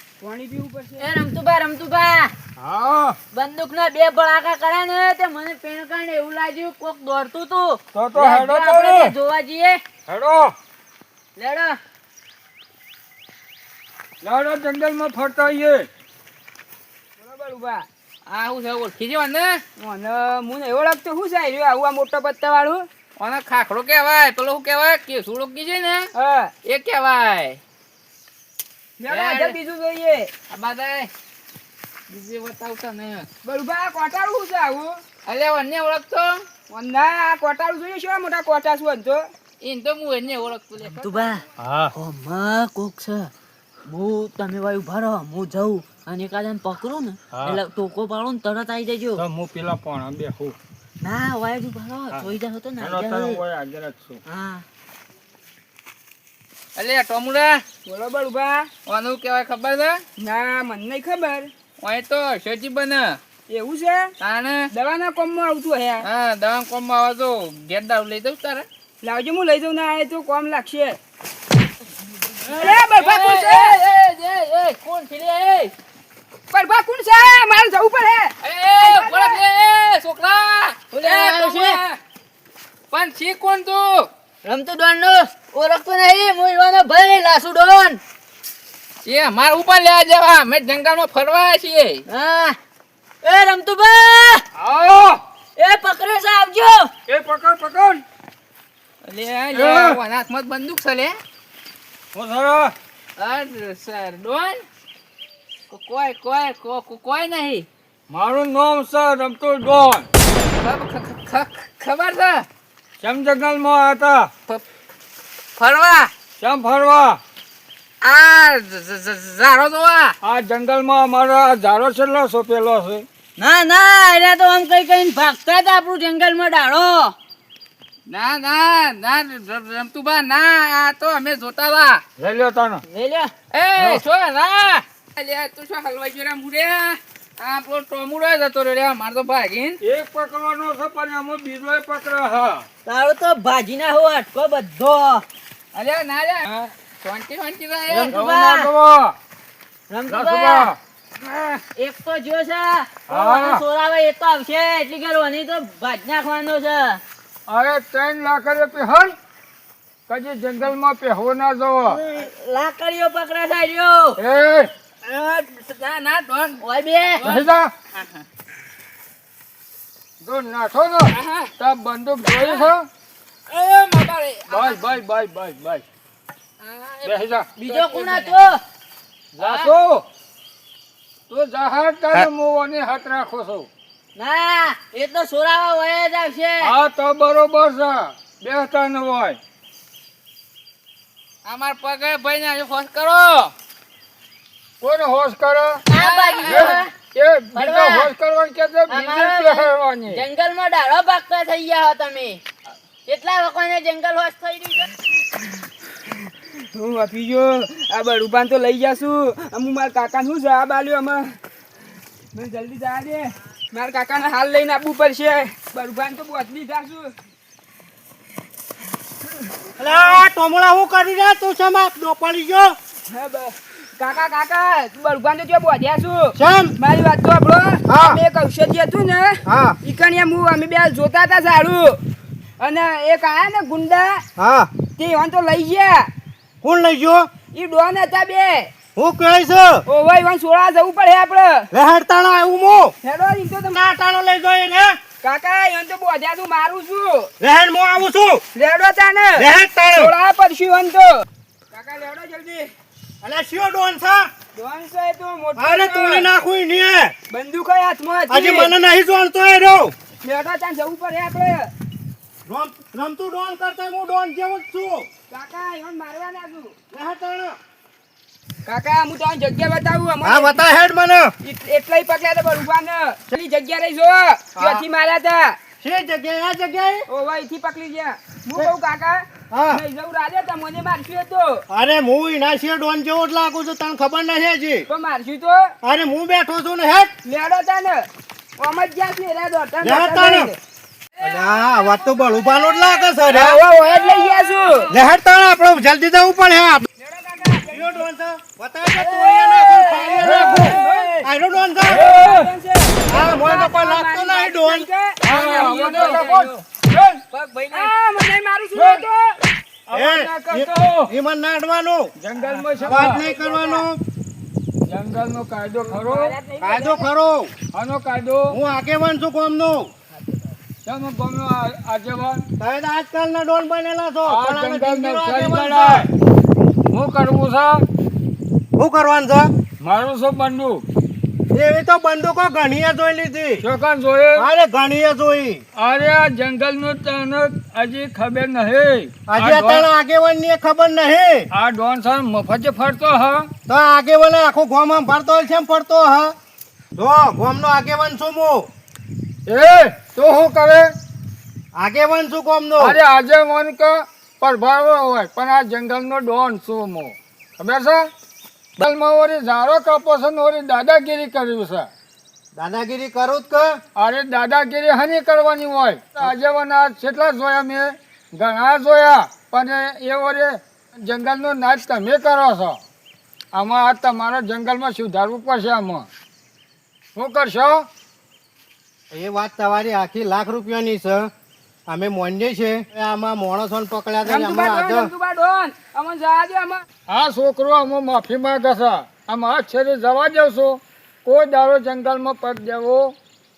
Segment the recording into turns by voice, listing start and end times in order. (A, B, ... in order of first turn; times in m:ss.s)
0:00.2-0:01.1 A
0:01.0-0:02.3 B
0:02.6-0:03.2 C
0:03.3-0:09.8 B
0:07.9-0:09.1 C
0:10.1-0:10.5 C
0:11.4-0:11.8 B
0:14.2-0:15.9 C
0:17.2-0:17.9 A
0:18.2-0:19.6 D
0:19.8-0:22.9 A
0:23.2-0:26.1 D
0:26.2-0:26.5 A
0:26.6-0:27.6 D
0:29.0-0:30.3 A
0:29.1-0:29.6 D
0:30.5-0:31.1 D
0:32.1-0:33.3 D
0:33.4-0:35.0 A
0:35.2-0:36.4 D
0:36.7-0:39.2 A
0:39.6-0:41.4 D
0:40.9-0:43.3 B
0:41.6-0:41.9 C
0:43.9-0:49.2 B
0:47.3-0:47.6 C
0:49.2-0:50.6 C
0:51.0-0:53.4 B
0:52.1-0:54.2 C
0:54.3-0:54.6 B
0:56.8-0:57.6 D
0:57.8-0:58.7 A
0:58.8-1:00.0 D
1:00.2-1:01.5 A
1:01.8-1:03.2 D
1:03.5-1:04.1 A
1:04.2-1:04.7 D
1:04.7-1:06.1 A
1:06.0-1:08.7 D
1:09.0-1:11.0 A
1:12.4-1:15.7 D
1:12.5-1:13.8 A
1:16.5-1:19.4 A
1:18.4-1:22.0 D
1:20.9-1:21.8 B
1:22.9-1:24.1 D
1:24.4-1:28.0 B
1:29.0-1:32.0 D
1:32.1-1:32.6 B
1:33.2-1:34.4 B
1:34.6-1:35.2 C
1:35.6-1:36.9 B
1:37.1-1:38.0 C
1:39.0-1:41.2 D
1:39.5-1:40.0 C
1:42.1-1:42.7 C
1:43.2-1:44.6 D
1:45.7-1:47.7 D
1:48.1-1:50.1 C
1:50.6-1:52.4 D
1:53.0-1:54.3 C
1:55.6-1:56.1 D
1:56.4-1:57.2 C
1:58.0-2:00.1 D
2:00.2-2:03.0 C
2:03.4-2:07.1 B
2:08.1-2:12.0 D
2:12.2-2:12.8 C
2:12.9-2:13.3 B
2:13.5-2:19.8 D
2:13.8-2:14.0 C
2:19.8-2:22.6 C
2:22.8-2:25.2 B
2:25.7-2:28.2 D
2:27.9-2:28.7 B
2:28.1-2:29.2 C
2:29.9-2:30.7 B
2:30.1-2:30.8 C
2:31.8-2:37.0 B
2:33.1-2:33.6 C
2:37.5-2:39.1 C
2:40.1-2:42.0 C
2:41.9-2:44.2 B
2:44.2-2:44.7 C
2:45.0-2:46.6 D
2:46.6-2:47.2 B
2:47.2-2:48.2 D
2:47.2-2:47.7 C
2:50.2-2:52.9 C
2:51.1-2:51.5 A
2:52.4-2:52.7 D
2:53.5-2:54.8 D
2:54.5-2:55.8 C
2:56.6-2:58.4 D
2:57.0-2:57.5 C
2:57.6-2:58.6 B
2:59.3-3:00.0 C
3:01.3-3:03.7 C
3:04.2-3:06.7 B
3:06.6-3:09.4 C
3:11.4-3:13.5 D
3:14.8-3:15.8 C
3:15.9-3:16.9 B
3:15.9-3:16.8 D
3:16.5-3:20.2 C
3:17.5-3:18.1 B
3:18.9-3:22.4 B
3:23.0-3:24.9 B
3:26.1-3:31.4 A
3:32.3-3:37.1 A
3:39.8-3:42.7 E
3:43.1-3:52.0 A
3:46.3-3:46.8 E
3:47.8-3:48.2 E
3:49.4-3:49.8 E
3:52.6-3:54.2 A
3:54.4-3:54.7 E
3:55.0-3:56.1 A
3:56.6-3:57.3 E
3:57.5-3:58.7 A
3:59.0-3:59.8 E
3:59.9-4:01.7 A
4:01.7-4:02.9 E
4:03.0-4:03.8 A
4:03.7-4:05.0 E
4:05.2-4:07.3 A
4:07.4-4:08.4 E
4:08.5-4:12.7 A
4:09.4-4:10.1 E
4:13.2-4:14.3 E
4:14.5-4:16.3 A
4:15.6-4:17.1 E
4:17.3-4:18.7 A
4:18.3-4:19.9 E
4:20.2-4:21.7 A
4:22.4-4:25.1 E
4:25.3-4:26.8 A
4:26.9-4:27.6 E
4:28.6-4:30.6 A
4:30.2-4:31.3 E
4:31.4-4:35.6 A
4:34.6-4:34.8 E
4:35.8-4:37.0 E
4:37.1-4:41.6 A
4:39.5-4:39.8 E
4:41.7-4:44.9 E
4:44.9-4:45.7 A
4:45.8-4:47.1 E
4:47.2-4:50.6 A
4:49.8-4:50.5 E
4:51.2-4:53.6 E
4:52.6-4:54.9 A
4:54.0-4:54.4 C
4:54.9-4:56.8 E
4:57.0-4:57.9 A
4:57.7-5:02.1 E
4:58.9-5:01.2 A
5:00.2-5:01.0 C
5:01.8-5:06.5 A
5:01.8-5:02.5 C
5:03.1-5:04.9 E
5:05.2-5:07.2 C
5:05.4-5:06.2 D
5:07.3-5:09.4 A
5:08.7-5:09.0 C
5:09.9-5:11.1 C
5:09.9-5:12.1 E
5:12.2-5:13.2 C
5:12.4-5:13.9 A
5:12.8-5:14.0 E
5:14.8-5:16.4 C
5:15.8-5:17.1 A
5:16.6-5:17.5 E
5:17.7-5:18.6 C
5:18.5-5:19.9 E
5:20.1-5:20.6 A
5:20.8-5:22.4 C
5:22.6-5:26.1 E
5:24.2-5:26.1 C
5:26.9-5:27.8 C
5:28.7-5:29.5 E
5:29.8-5:30.8 C
5:31.5-5:33.6 E
5:33.6-5:34.5 C
5:34.4-5:35.6 E
5:35.8-5:39.9 C
5:39.3-5:41.4 E
5:41.5-5:43.5 C
5:43.7-5:46.3 E
5:47.0-5:48.7 E
5:49.4-5:50.9 C
5:51.7-5:53.0 E
5:52.8-5:58.1 C
5:58.8-6:01.9 C
6:02.5-6:03.8 E
6:04.0-6:12.8 C
6:13.5-6:16.1 C
6:17.2-6:17.8 C
6:19.1-6:21.3 E
6:21.9-6:25.1 E
6:24.2-6:26.8 A
6:27.1-6:33.1 C